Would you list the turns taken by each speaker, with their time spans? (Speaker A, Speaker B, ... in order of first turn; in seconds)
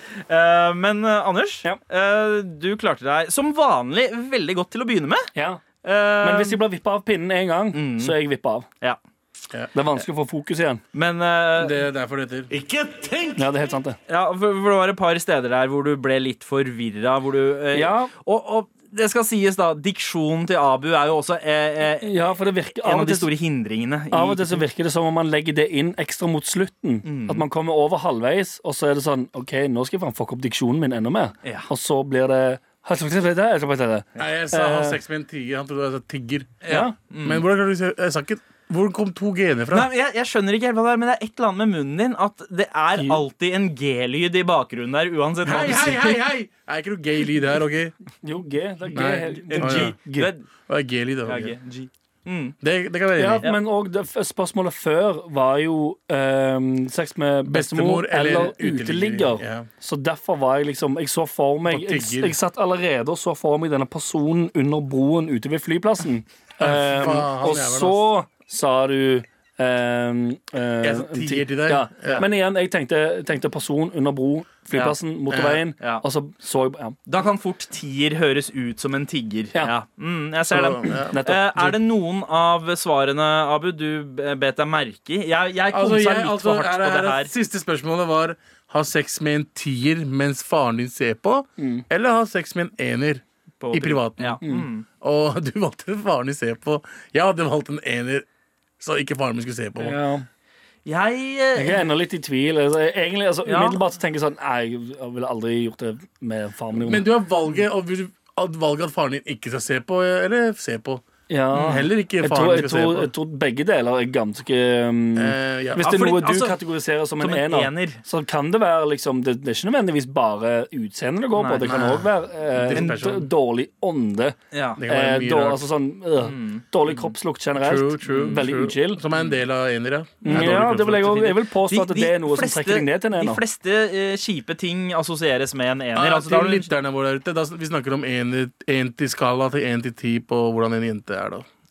Speaker A: 0.3-5.3, 5.8-6.6, 7.7-8.1, 10.9-11.8, 14.1-22.3, 22.8-24.6, 27.0-27.4, 36.6-37.4, 39.7-46.2, 49.5-50.5, 51.2-52.5, 75.8-76.0, 77.1-87.3, 93.6-94.8, 100.8-101.8, 103.5-103.8, 111.5-111.8, 115.8-116.6, 117.2-118.0, 121.3-122.1, 124.5-124.8, 126.2-126.6, 128.1-128.4, 130.3-130.6, 131.6-136.7
Speaker B: 5.3-5.6, 6.2-8.7, 9.7-10.8, 13.3-14.0, 17.7-18.1, 22.0-23.3, 24.1-35.0, 36.7-36.9, 43.0-43.2, 48.2-50.3, 53.1-77.0, 81.1-81.8, 91.6-91.8, 99.8-100.2, 101.5-107.0, 111.3-129.0, 130.2-133.4
Speaker C: 11.6-12.6, 34.2-39.9, 45.4-47.9, 48.9-49.9, 50.7-51.5, 52.6-53.5, 57.5-59.7, 61.6-62.4, 66.6-68.0, 70.8-72.2, 75.3-75.6, 80.5-81.1, 85.7-98.2, 98.8-100.0, 106.8-111.0, 111.6-113.1, 115.2-115.9, 122.5-123.3, 124.8-125.7, 127.5-131.4, 135.9-141.4